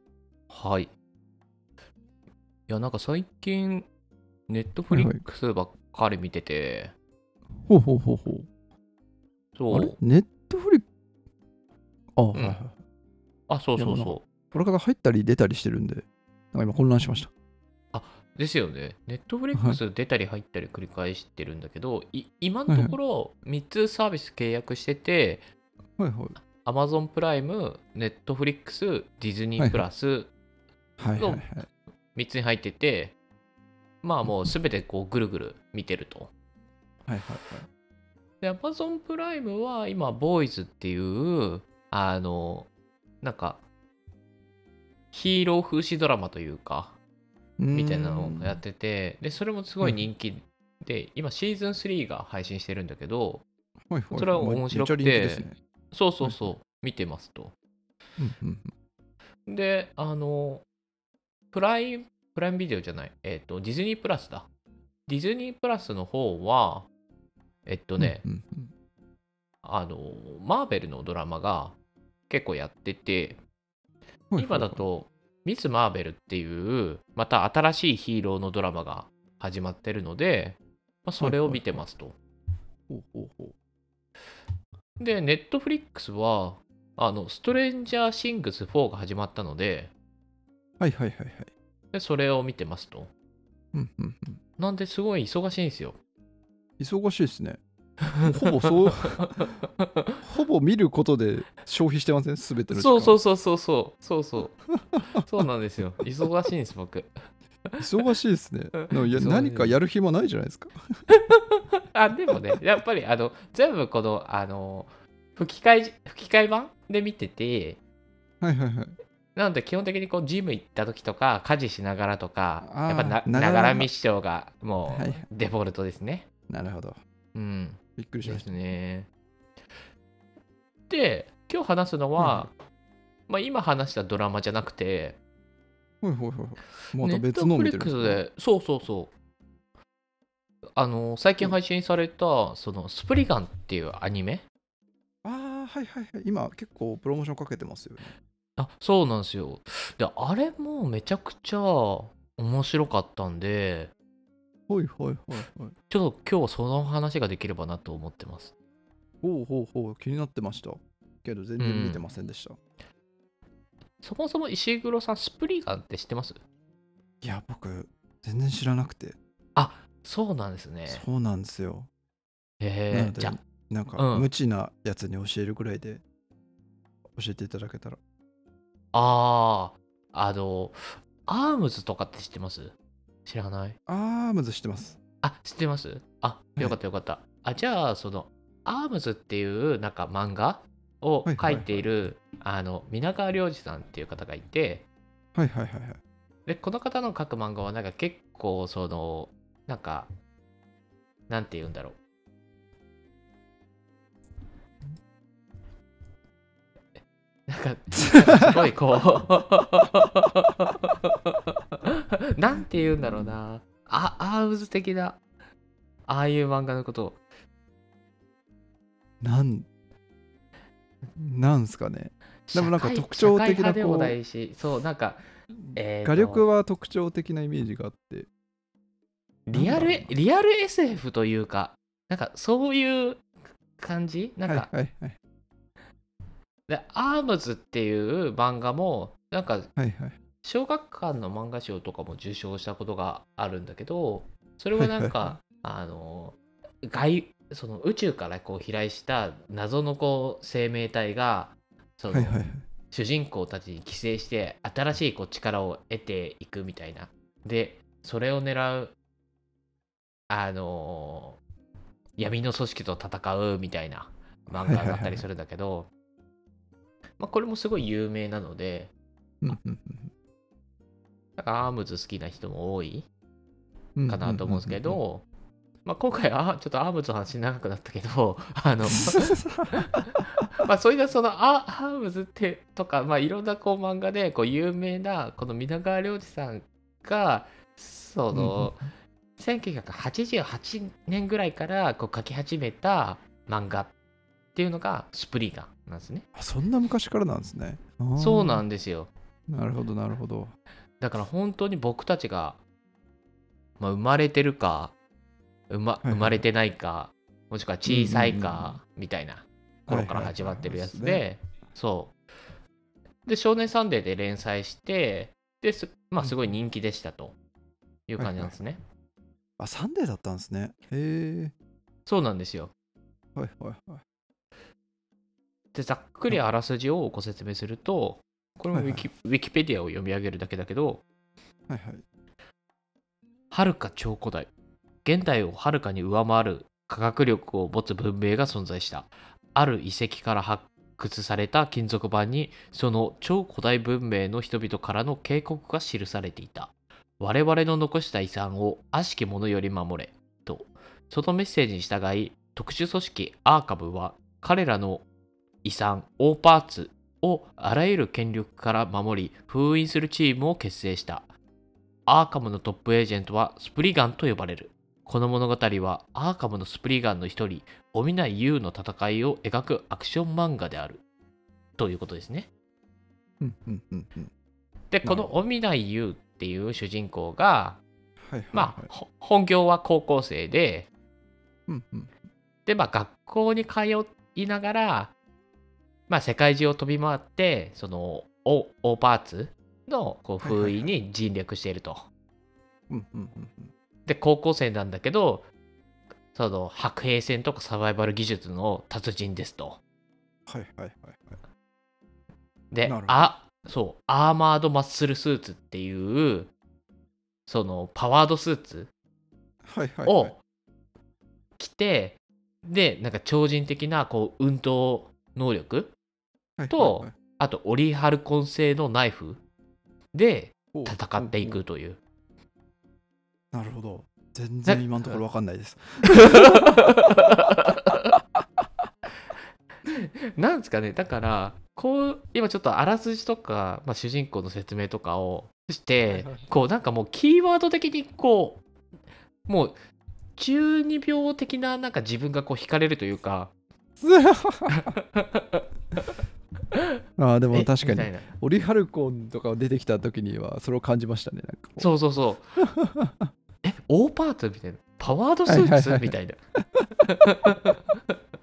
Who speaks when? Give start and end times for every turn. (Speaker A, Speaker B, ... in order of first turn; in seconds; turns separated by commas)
Speaker A: 0.5-0.9, Speaker A: 2.7-3.9, Speaker A: 4.5-6.9, Speaker B: 4.9-5.2, Speaker B: 7.7-8.5, Speaker A: 9.6-10.0, Speaker B: 9.7-10.9, Speaker B: 12.2-12.8, Speaker A: 12.3-12.6, Speaker A: 13.5-14.2, Speaker B: 13.8-17.3, Speaker A: 17.9-25.4, Speaker B: 19.5-19.8, Speaker B: 22.7-23.0, Speaker B: 26.0-26.4, Speaker A: 26.6-30.3, Speaker B: 29.6-29.8, Speaker B: 31.0-31.7, Speaker A: 31.2-33.1, Speaker A: 34.0-36.3, Speaker B: 37.1-37.7, Speaker A: 38.4-42.7, Speaker A: 43.2-43.6, Speaker A: 45.1-47.0, Speaker B: 47.6-48.6, Speaker A: 47.7-53.5, Speaker B: 53.9-55.6, Speaker A: 54.1-57.5, Speaker B: 56.2-56.5, Speaker B: 58.2-58.7, Speaker A: 59.5-60.6, Speaker A: 61.5-64.5, Speaker A: 65.1-66.9, Speaker A: 67.7-68.2, Speaker B: 68.0-68.7, Speaker A: 69.6-71.8, Speaker A: 72.3-73.4, Speaker B: 74.3-74.8, Speaker A: 74.4-82.2, Speaker B: 81.2-81.8, Speaker B: 82.9-83.5, Speaker A: 85.0-89.9, Speaker B: 90.8-91.5, Speaker A: 91.9-93.1, Speaker B: 93.7-94.4, Speaker A: 94.6-96.0, Speaker B: 96.8-97.6, Speaker B: 98.2-99.5, Speaker A: 99.3-100.2, Speaker B: 100.2-103.2, Speaker A: 102.7-104.6, Speaker A: 105.2-107.1, Speaker B: 107.8-110.7, Speaker A: 108.8-109.8, Speaker A: 111.2-117.8, Speaker B: 118.4-119.0, Speaker A: 119.3-126.3, Speaker B: 122.6-123.9, Speaker B: 124.9-125.2, Speaker B: 126.5-127.0, Speaker A: 127.3-129.1, Speaker B: 128.0-128.5, Speaker A: 130.9-132.5, Speaker B: 132.2-132.5, Speaker A: 133.3-135.2, Speaker B: 136.0-138.2, Speaker A: 137.0-139.1, Speaker A: 140.8-144.4, Speaker B: 145.2-148.2, Speaker A: 148.6-153.9, Speaker B: 154.7-155.8, Speaker A: 155.9-158.5, Speaker B: 159.2-162.6, Speaker A: 161.6-162.0, Speaker A: 164.0-166.4, Speaker B: 167.2-169.2, Speaker A: 169.6-171.0, Speaker B: 170.9-171.9, Speaker A: 172.6-173.4, Speaker B: 172.9-176.0, Speaker A: 174.0-174.3, Speaker B: 177.2-178.0, Speaker A: 178.9-183.8, Speaker B: 183.9-185.0, Speaker A: 185.2-194.9, Speaker B: 191.3-191.8, Speaker B: 195.3-196.0, Speaker A: 196.5-200.1, Speaker A: 201.3-202.0, Speaker A: 207.5-215.2, Speaker A: 216.1-217.2, Speaker B: 219.2-219.7, Speaker B: 221.2-224.2, Speaker A: 222.5-226.4, Speaker B: 225.7-228.3, Speaker A: 229.5-234.7, Speaker B: 229.5-230.1, Speaker B: 234.4-235.2, Speaker A: 236.7-239.7, Speaker B: 239.8-240.2, Speaker A: 240.4-252.4, Speaker B: 244.8-245.4, Speaker B: 252.1-252.6, Speaker A: 252.9-258.9, Speaker A: 260.3-261.4, Speaker A: 262.2-265.9, Speaker B: 264.5-265.2, Speaker A: 267.2-268.9, Speaker B: 269.4-270.1, Speaker A: 271.4-273.1, Speaker B: 274.0-275.0, Speaker A: 274.1-275.3, Speaker A: 275.9-279.8, Speaker B: 279.1-280.2, Speaker A: 280.5-288.9, Speaker B: 288.3-288.8, Speaker A: 289.4-293.9, Speaker A: 294.6-296.3, Speaker B: 296.4-298.6, Speaker A: 298.2-299.1, Speaker B: 299.5-300.5, Speaker A: 301.0-302.6, Speaker A: 303.8-304.9, Speaker A: 305.7-312.1, Speaker B: 306.0-306.4, Speaker B: 307.9-308.8, Speaker B: 309.9-311.2, Speaker A: 313.3-317.4, Speaker B: 316.2-316.5, Speaker A: 318.1-318.8, Speaker B: 318.2-318.6, Speaker B: 319.6-321.5, Speaker A: 322.1-322.7, Speaker B: 323.4-324.0, Speaker A: 325.7-331.1, Speaker B: 328.7-329.1, Speaker B: 331.7-332.0, Speaker A: 333.5-334.5, Speaker A: 335.1-355.1, Speaker A: 355.6-361.3, Speaker A: 362.1-371.0, Speaker A: 371.8-372.5, Speaker B: 373.4-374.3, Speaker A: 374.9-377.8, Speaker B: 375.0-375.3, Speaker B: 378.2-378.9, Speaker A: 378.5-380.9, Speaker B: 381.7-382.1, Speaker A: 382.7-385.1, Speaker A: 386.1-392.1, Speaker B: 390.4-390.9, Speaker B: 392.9-393.7, Speaker A: 394.1-395.5, Speaker A: 396.3-399.8, Speaker B: 400.5-401.4, Speaker A: 402.7-406.5, Speaker B: 402.8-403.3, Speaker A: 407.5-408.9, Speaker B: 409.6-410.3, Speaker A: 410.1-410.4, Speaker A: 411.6-415.9, Speaker B: 416.6-417.1, Speaker A: 416.7-419.4, Speaker A: 420.1-422.0, Speaker B: 420.7-421.6, Speaker B: 423.5-426.9, Speaker A: 424.7-425.2, Speaker A: 426.0-428.1, Speaker A: 429.9-438.6, Speaker B: 436.1-436.5, Speaker A: 439.5-439.8, Speaker A: 440.4-443.5, Speaker B: 444.0-444.9, Speaker A: 444.8-446.2, Speaker B: 447.2-451.9, Speaker A: 447.5-448.3, Speaker A: 451.8-452.6, Speaker B: 452.6-453.3, Speaker A: 453.6-456.4, Speaker B: 455.5-456.1, Speaker A: 457.0-458.2